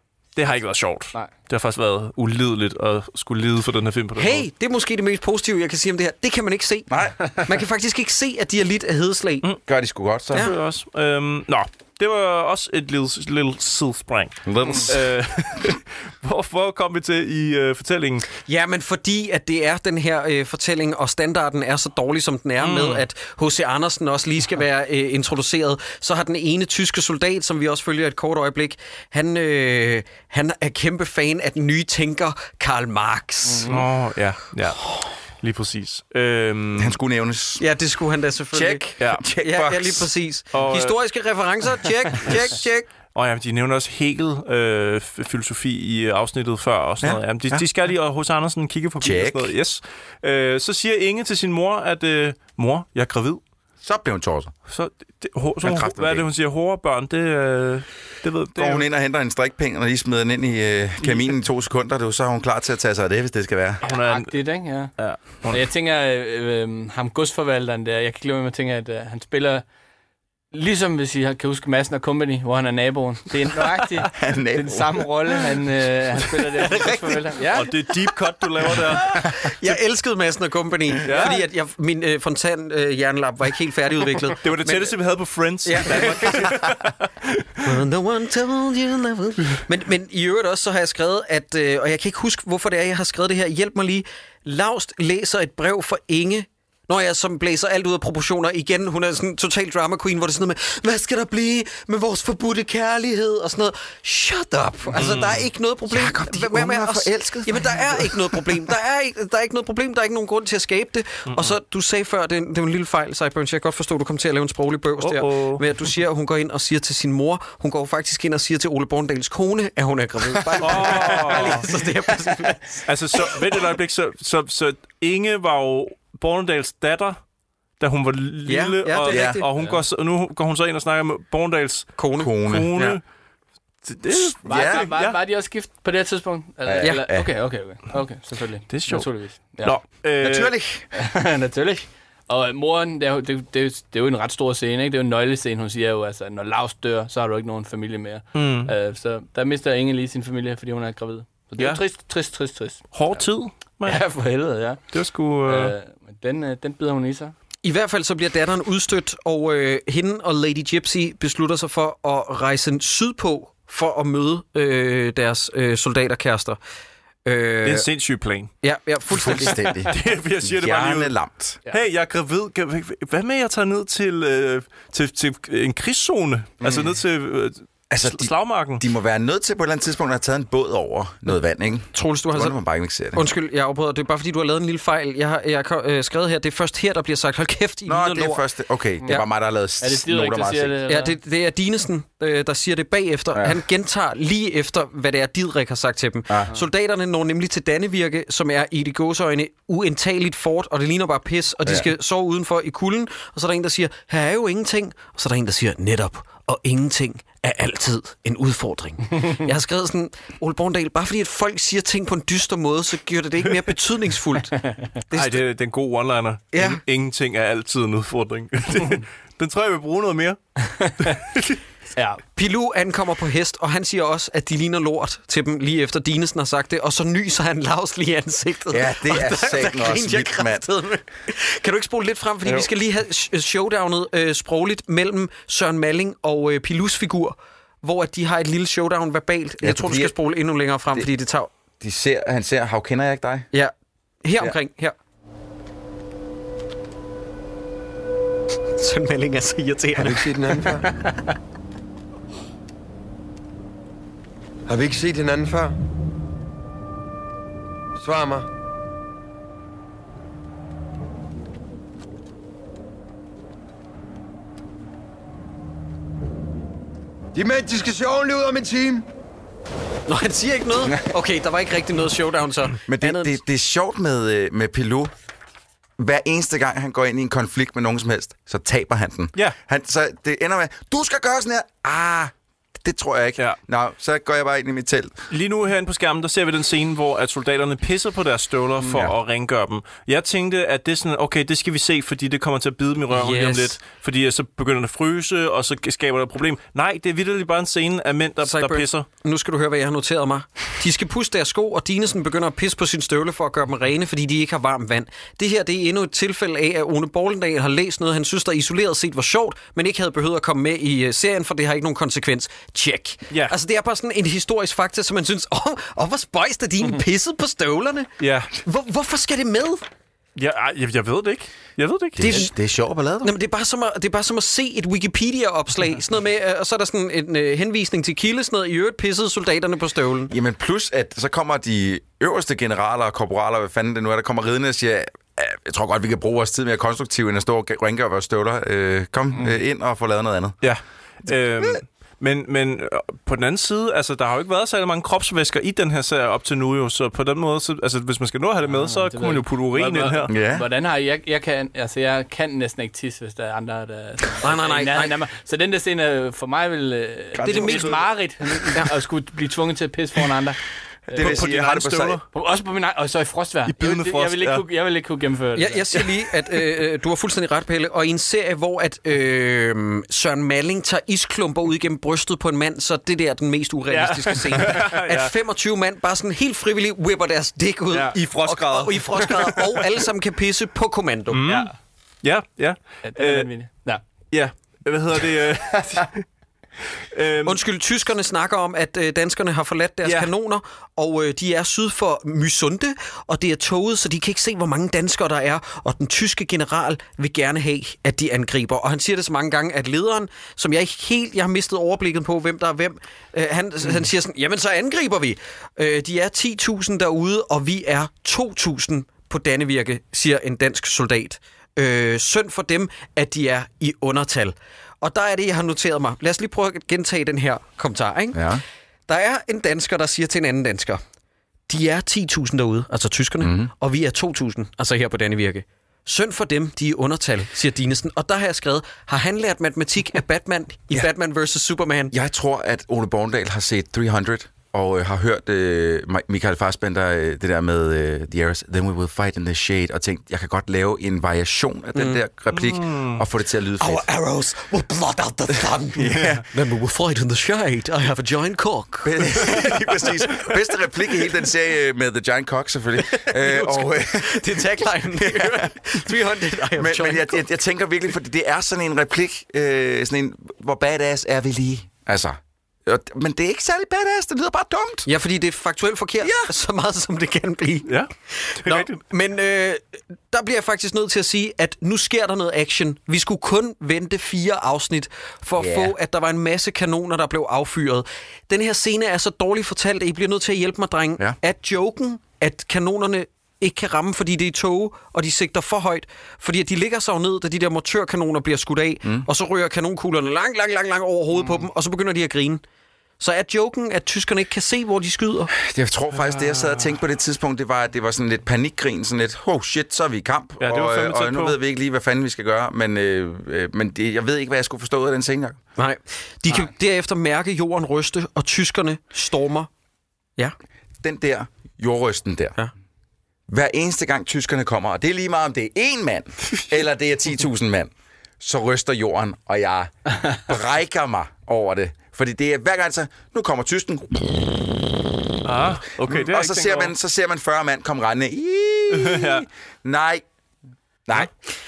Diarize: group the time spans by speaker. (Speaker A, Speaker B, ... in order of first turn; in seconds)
Speaker A: 0.3-4.5, 10.3-18.3, 22.6-23.0, 33.7-37.0, 40.5-41.0, 42.2-42.6, 43.1-53.4, 54.7-58.9, 63.8-65.6, 77.5-79.1, 81.1-81.4, 84.4-87.8, 105.0-105.4, 111.3-111.6, 115.0-115.7, 120.6-121.7, 122.9-127.2, 127.8-133.0, 133.8-135.2, 138.7-140.5, 148.3-148.7, 152.9-154.0, 154.9-155.7, 167.6-168.5, 169.9-171.1, 171.7-178.8, 215.1-221.6, 285.3-299.1, 318.2-318.5, 320.4-322.5, 340.6-350.3, 357.4-357.9, 361.2-362.2, 363.7-364.6, 373.9-375.3, 378.1-379.9, 381.3-383.5, 384.3-386.2, 387.1-387.6, 390.0-390.3, 442.5-443.2, 468.6-469.0, 496.1-496.9, 500.6-501.6, 525.4-526.9, 529.0-529.5
Speaker B: 4.2-9.5, 18.5-33.8, 37.6-42.9, 76.6-77.4, 78.7-85.0, 85.6-86.8, 87.6-123.4, 128.4-129.5, 132.0-132.3, 136.8-137.1, 157.6-166.6, 167.2-167.9, 168.6-169.7, 181.9-182.6, 183.1-188.4, 190.9-215.4, 216.5-216.8, 222.3-241.5, 244.2-245.0, 248.8-250.9, 270.1-273.4, 293.1-293.8, 298.4-319.9, 322.2-322.5, 323.2-330.3, 354.4-355.2, 357.4-358.0, 365.6-381.5, 387.4-421.0, 421.7-432.1, 441.9-442.2, 443.8-450.6, 453.0-457.5, 465.1-492.6, 493.2-495.5, 505.8-509.7
Speaker C: 6.9-7.4, 9.7-10.5, 14.4-15.0, 36.8-37.6, 38.5-40.1, 47.0-47.6, 49.0-49.5, 53.8-54.5, 55.6-56.3, 58.5-63.8, 74.1-75.1, 105.9-108.7, 120.3-121.5, 129.1-129.4, 132.2-133.0, 134.1-134.8, 136.7-137.3, 140.2-140.8, 169.1-171.6, 176.6-176.9, 177.9-183.2, 187.9-190.8, 196.3-196.6, 201.7-201.9, 228.7-230.7, 239.6-240.1, 241.8-243.5, 272.9-275.1, 276.0-285.1, 288.9-289.1, 322.2-323.3, 330.3-340.6, 341.3-341.8, 350.3-350.7, 361.1-362.2, 418.3-418.6, 423.4-423.7, 432.1-444.1, 445.9-446.4, 449.0-455.7, 456.8-465.1, 466.2-466.5, 475.6-475.9, 495.6-505.6, 511.0-512.6, 513.5-524.9, 525.6-530.2
Speaker D: 33.5-33.7, 63.8-69.6, 70.5-77.7, 129.6-129.8, 134.4-139.8, 140.9-153.2, 153.9-154.8, 155.5-157.3, 189.8-191.2, 222.0-222.2, 348.6-361.4, 362.3-366.0, 381.5-381.7, 383.0-384.0
Speaker E: 250.0-250.8, 254.7-255.8, 258.0-258.5, 267.4-269.1